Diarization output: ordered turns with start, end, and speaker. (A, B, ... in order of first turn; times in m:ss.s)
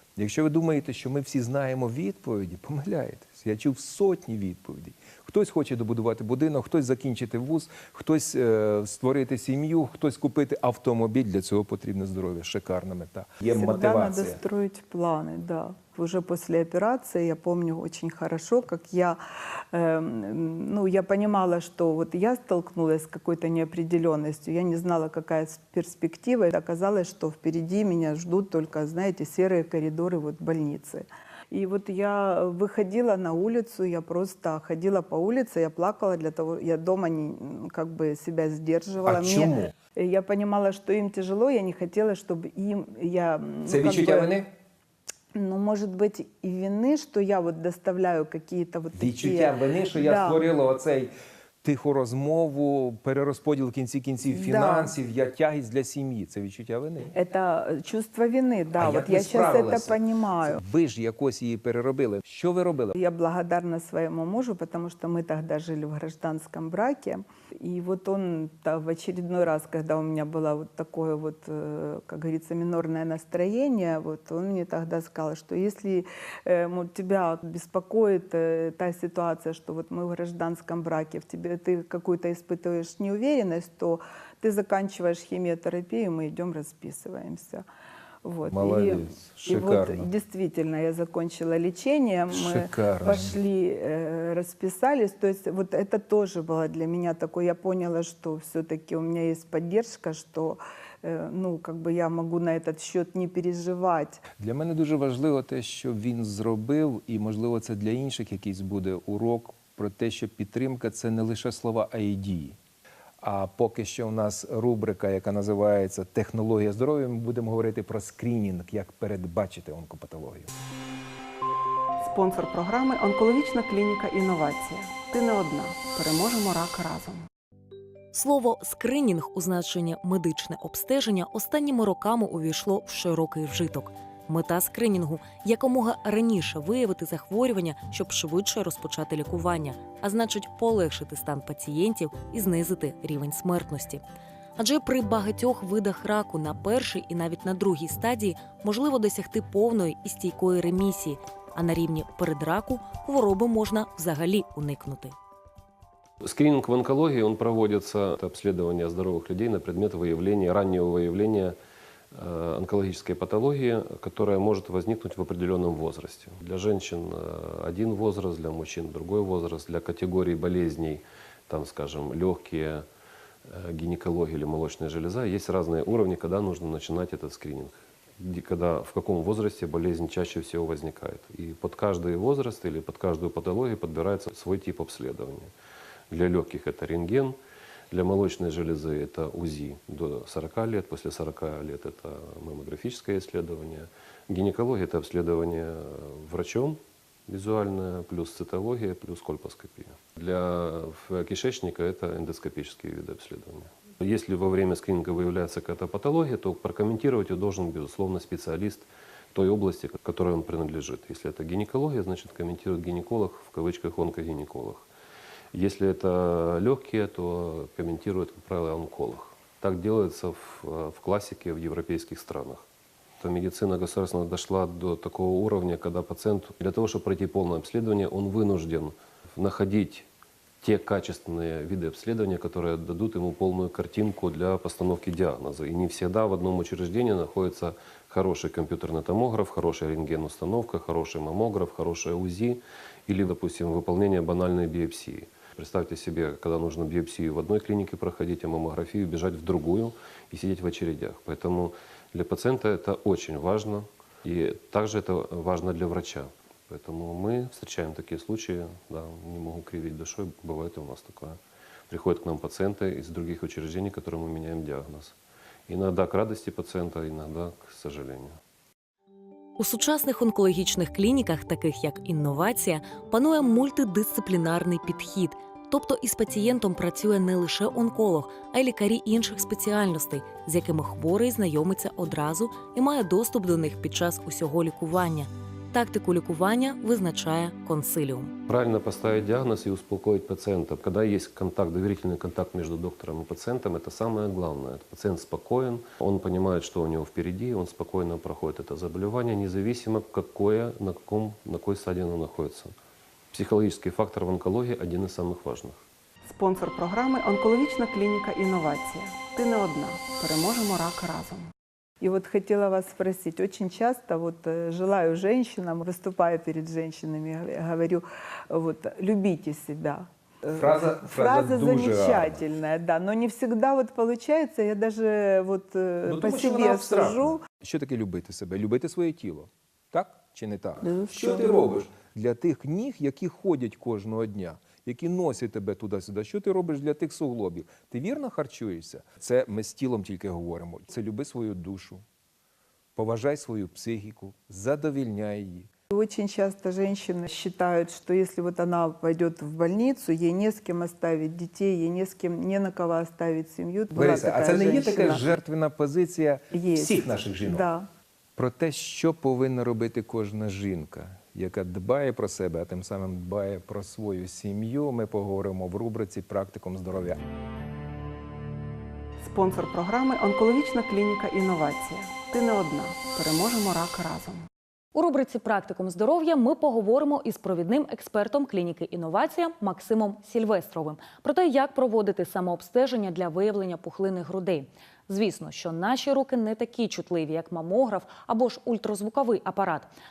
0:00.2-0:14.4 A
0:13.5-0:19.2 B
0:19.7-0:44.4 B
0:39.0-0:39.7 A
0:43.7-0:44.5 A
0:45.4-0:50.5 B
0:48.9-0:51.1 A
0:51.6-0:57.1 A
0:54.3-0:54.9 B
0:57.2-1:00.6 B
0:58.8-1:03.0 A
1:03.0-1:27.6 B
1:28.2-1:44.2 B
1:28.5-1:30.1 A
1:32.3-1:33.4 A
1:44.4-1:52.6 A
1:53.2-2:00.5 A
2:02.0-2:07.3 C
2:08.1-2:24.0 D
2:24.6-2:35.2 D
2:36.2-2:41.6 E
2:42.1-2:52.8 E
2:53.5-3:05.5 E
3:06.1-3:07.4 E
3:07.9-3:34.8 E
3:35.5-3:42.6 E
3:43.2-3:50.1 E
3:50.6-4:21.4 E
4:21.9-4:25.2 E
4:25.7-4:28.4 E
4:29.6-4:48.3 D
4:48.5-5:02.8 E
5:03.3-5:05.8 E
5:06.2-5:11.5 C
5:12.0-5:27.4 B
5:20.5-5:22.5 A
5:26.0-5:42.0 A
5:30.8-5:31.8 B
5:43.0-5:45.7 A
5:45.9-5:55.3 B
5:53.9-5:57.7 A
5:56.5-5:57.9 B
5:58.4-6:07.2 A
6:09.2-6:14.5 C
6:15.0-6:16.3 D
6:15.2-6:29.9 F
6:16.9-6:17.2 D
6:17.9-6:19.1 D
6:20.0-6:21.1 D
6:21.7-6:22.7 D
6:24.0-6:24.4 D